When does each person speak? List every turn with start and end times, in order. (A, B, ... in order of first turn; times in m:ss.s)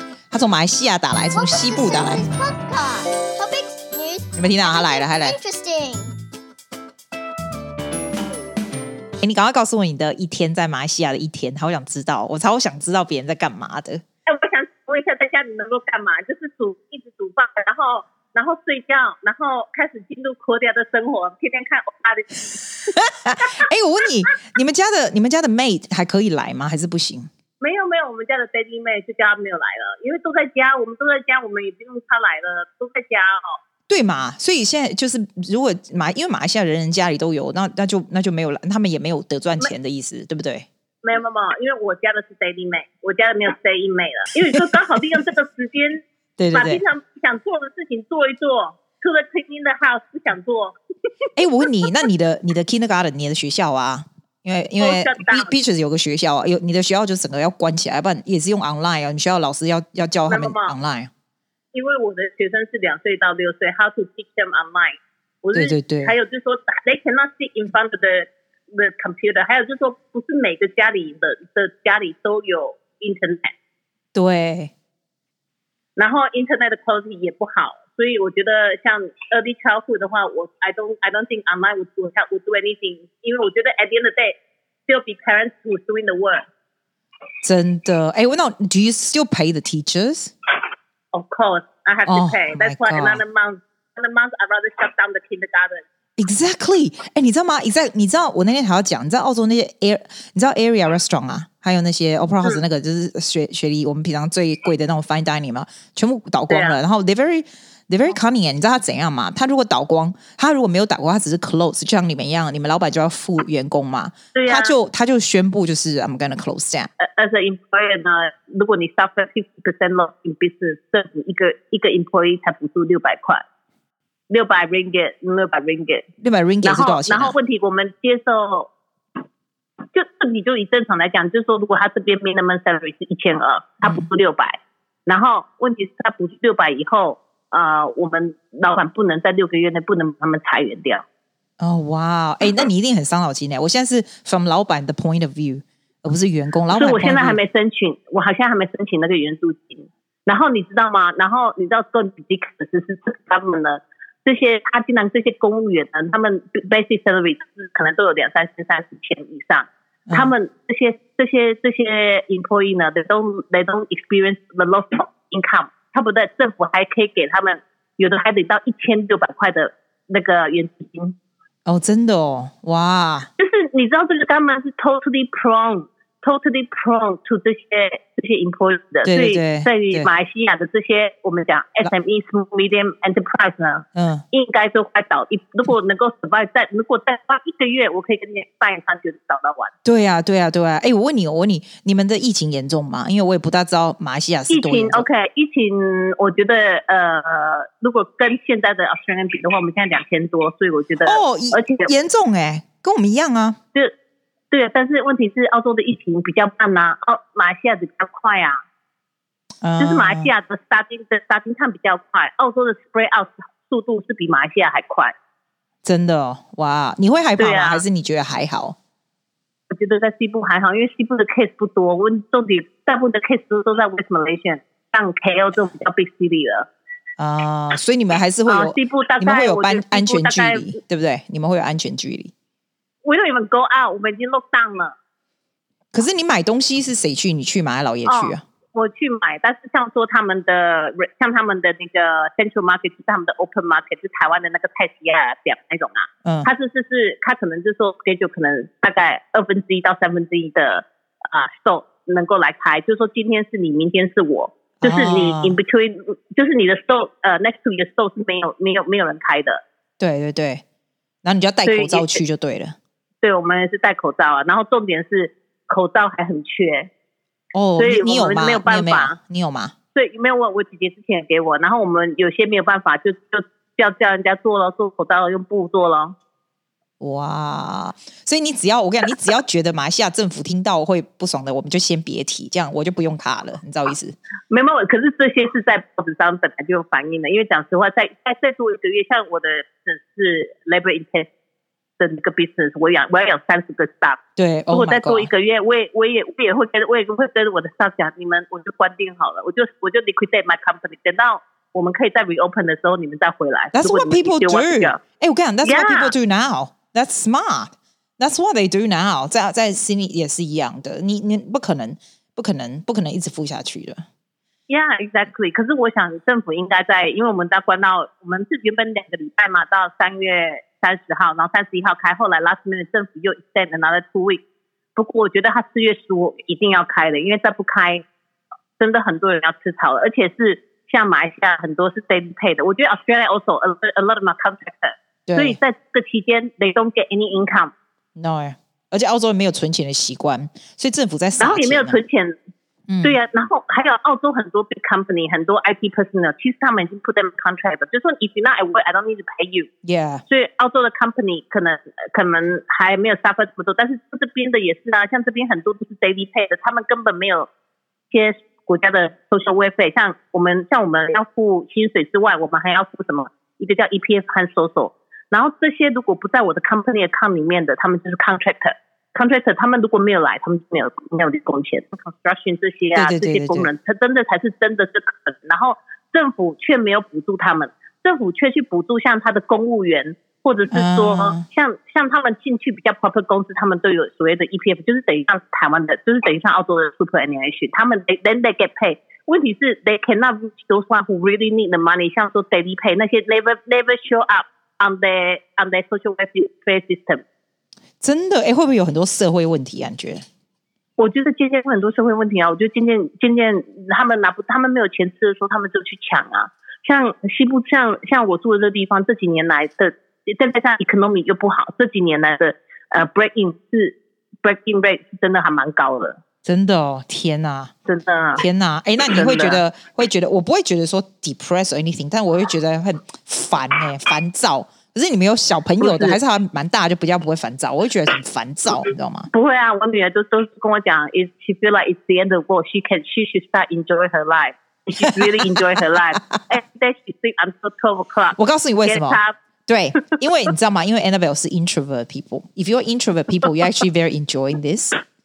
0:00.3-0:02.3 A
0:01.3-0:06.2 B
0:04.4-0:05.4 A
0:09.2-0:14.0 A
0:14.3-0:22.6 C
0:22.9-0:27.3 A
0:27.6-0:33.6 C
0:33.9-0:40.7 A
0:41.0-0:50.8 C
0:46.4-0:46.8 A
0:51.3-0:51.7 C
0:51.4-1:01.1 A
0:54.8-0:55.5 C
1:00.3-1:00.7 C
1:01.7-1:13.5 C
1:05.5-1:06.2 A
1:14.1-1:14.7 A
1:16.0-1:24.4 C
1:24.9-1:26.4 C
1:27.4-1:30.3 A
1:31.1-1:35.8 C
1:32.1-1:33.2 A
1:36.2-1:56.9 A
1:46.5-1:46.8 C
1:54.3-1:54.7 C
1:57.0-2:03.4 C
2:04.3-2:06.0 C
2:06.2-2:07.4 A
2:06.6-2:08.7 C
2:09.9-2:21.0 C
2:21.6-2:27.4 A
2:26.7-2:51.2 C
2:40.1-2:40.3 A
2:51.7-2:53.3 A
2:53.4-3:09.7 C
2:59.0-3:00.1 A
3:04.0-3:04.2 A
3:09.8-3:15.1 A
3:14.5-3:21.9 C
3:21.0-3:23.6 A
3:24.5-3:28.6 C
3:29.6-3:30.3 A
3:29.8-3:35.1 C
3:35.8-3:38.8 A
3:37.4-3:37.8 C
3:39.7-3:46.7 C
3:47.2-3:52.3 A
3:48.5-3:50.7 C
3:53.0-3:55.0 C
3:55.9-3:58.4 A
3:58.1-4:19.6 C
4:06.2-4:06.5 A
4:14.8-4:15.6 A
4:20.0-4:20.6 A
4:21.2-4:22.8 A
4:21.6-4:22.2 C
4:23.2-4:26.9 C
4:27.5-4:29.7 A
4:27.8-4:29.2 C
4:30.0-4:36.2 C
4:37.0-4:44.2 A
4:44.5-4:51.3 C
4:52.0-4:54.2 C
4:54.4-4:55.3 A
4:54.7-5:05.0 C
5:03.7-5:14.0 A
5:05.6-5:06.1 C
5:14.7-5:24.4 C
5:25.0-5:28.0 C
5:28.8-5:37.7 C
5:35.3-5:35.6 A
5:38.2-5:42.0 A
5:41.4-5:42.4 C
5:42.9-5:43.2 A
5:43.0-5:49.7 C
5:49.8-5:50.2 A
5:50.3-5:57.5 C
5:58.1-6:37.2 C
6:13.0-6:13.7 A
6:20.7-6:21.4 A
6:38.0-6:40.2 A
6:41.0-6:56.2 C
6:56.4-6:57.7 A
6:57.9-6:58.4 C
6:58.4-7:09.3 A
6:59.0-6:59.6 C
7:05.8-7:06.2 C
7:09.3-7:19.4 C
7:15.0-7:16.4 A
7:18.4-7:25.0 A